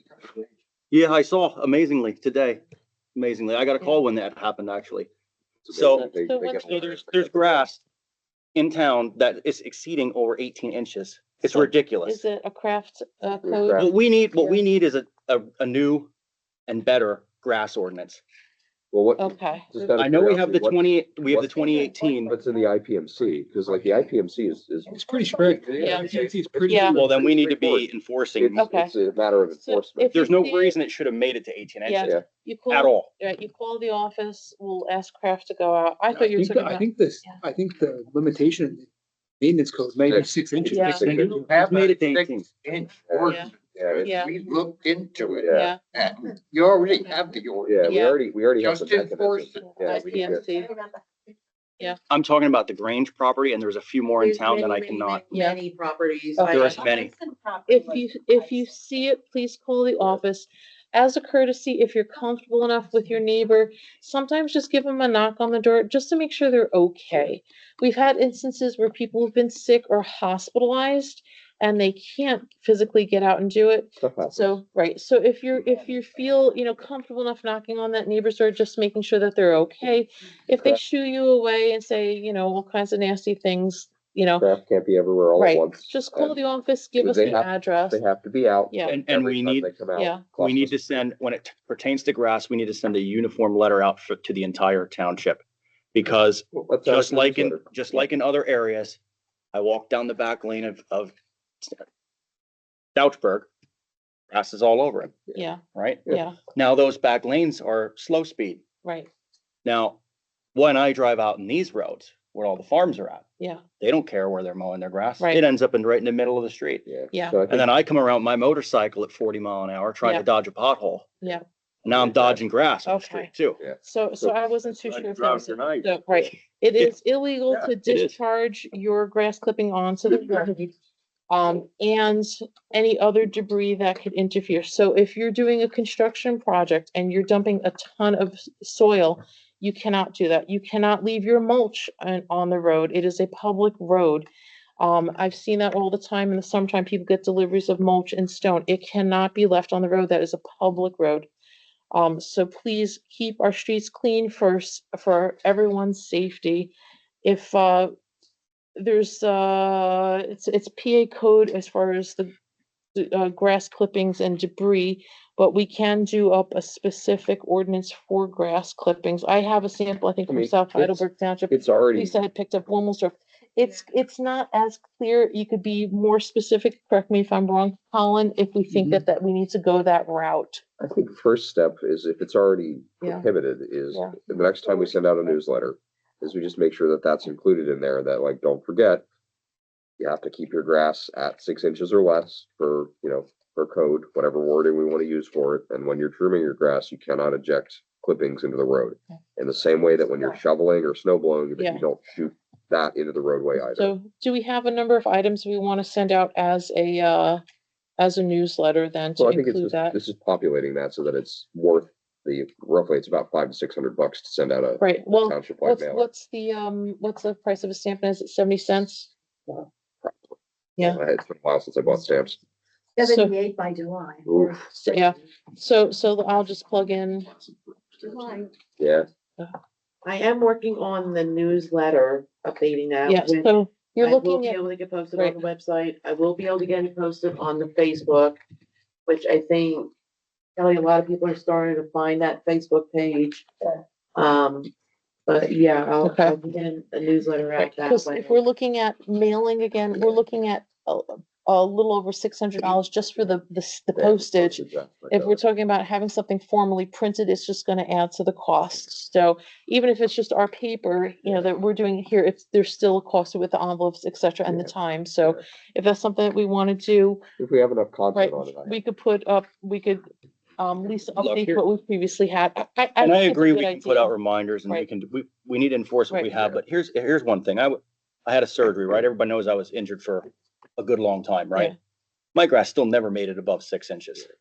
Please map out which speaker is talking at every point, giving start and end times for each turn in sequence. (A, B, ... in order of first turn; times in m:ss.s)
0:00.9-0:02.6 A
0:03.2-0:05.1 A
0:05.7-0:07.7 B
0:05.7-0:06.1 A
0:05.9-0:06.7 C
0:06.6-0:07.8 A
0:08.6-0:12.2 A
0:11.4-0:14.6 C
0:13.4-0:13.9 B
0:13.8-0:16.1 A
0:16.7-0:18.2 A
0:18.9-0:26.3 B
0:19.2-0:19.8 C
0:20.0-0:22.4 A
0:24.9-0:27.2 D
0:25.8-0:26.1 C
0:25.8-0:27.4 E
0:26.7-0:27.0 C
0:27.0-0:27.9 B
0:27.0-0:28.7 A
0:28.4-0:30.2 B
0:28.6-0:28.9 C
0:29.6-0:30.8 C
0:30.1-0:32.2 A
0:31.8-0:37.4 C
0:32.7-0:33.1 A
0:36.1-0:38.9 D
0:39.4-0:41.5 D
0:40.1-0:41.4 B
0:40.7-0:41.0 C
0:41.0-0:42.5 A
0:41.3-0:48.0 E
0:43.1-0:44.1 B
0:43.3-0:43.5 C
0:44.0-0:44.3 C
0:45.4-0:45.7 B
0:45.5-0:45.8 C
0:47.6-0:50.4 B
0:47.8-0:48.2 C
0:48.6-0:50.2 E
0:49.7-0:50.7 C
0:50.0-0:51.0 F
0:52.1-0:55.2 A
0:54.2-0:56.8 G
0:55.3-0:55.6 C
0:56.4-0:56.7 C
0:56.5-0:57.1 A
0:56.8-0:58.6 F
0:57.7-1:24.5 C
1:14.0-1:14.6 B
1:24.4-1:26.4 B
1:25.4-1:28.0 C
1:27.0-1:30.8 B
1:28.7-1:29.0 C
1:28.9-1:29.7 A
1:30.0-1:30.3 C
1:30.4-1:35.4 A
1:35.9-1:39.0 A
1:36.5-1:37.8 B
1:39.5-1:41.8 A
1:43.0-1:43.5 A
1:44.3-1:45.2 A
1:45.3-1:46.4 C
1:45.8-1:48.6 A
1:48.8-1:49.1 C
1:49.6-1:50.0 A
1:50.5-1:53.3 A
1:53.8-1:56.9 A
1:56.9-1:57.7 B
1:57.1-1:57.4 C
1:57.5-2:01.1 A
2:01.8-2:03.6 A
2:01.9-2:02.4 B
2:02.8-2:10.6 C
2:03.6-2:04.3 B
2:04.7-2:05.9 A
2:07.5-2:08.2 A
2:11.3-2:24.3 C
2:24.8-2:31.3 C
2:31.9-2:37.9 C
2:38.8-2:42.3 C
2:43.0-3:00.6 C
2:50.3-2:52.2 B
2:58.7-2:59.0 D
3:00.8-3:09.0 B
3:03.9-3:05.3 C
3:10.0-3:24.0 B
3:21.6-3:21.8 C
3:23.7-3:27.4 C
3:28.0-3:30.0 C
3:29.2-3:36.1 B
3:34.8-3:39.1 C
3:40.0-3:42.4 B
3:43.0-3:44.7 F
3:43.0-3:43.4 C
3:44.3-3:44.6 B
3:44.7-3:47.5 C
3:48.1-3:48.5 F
3:48.8-3:49.1 B
3:50.0-3:58.4 G
3:53.1-3:54.6 C
3:59.1-3:59.9 G
4:00.6-4:03.5 G
4:04.2-4:04.7 G
4:05.3-4:08.4 G
4:06.0-4:06.4 C
4:07.6-4:27.2 C
4:14.0-4:15.4 B
4:21.2-4:21.5 B
4:24.4-4:25.4 B
4:27.4-4:28.8 B
4:28.1-4:30.0 C
4:30.6-4:34.1 C
4:31.2-4:31.6 A
4:33.0-4:41.7 A
4:42.4-4:44.3 A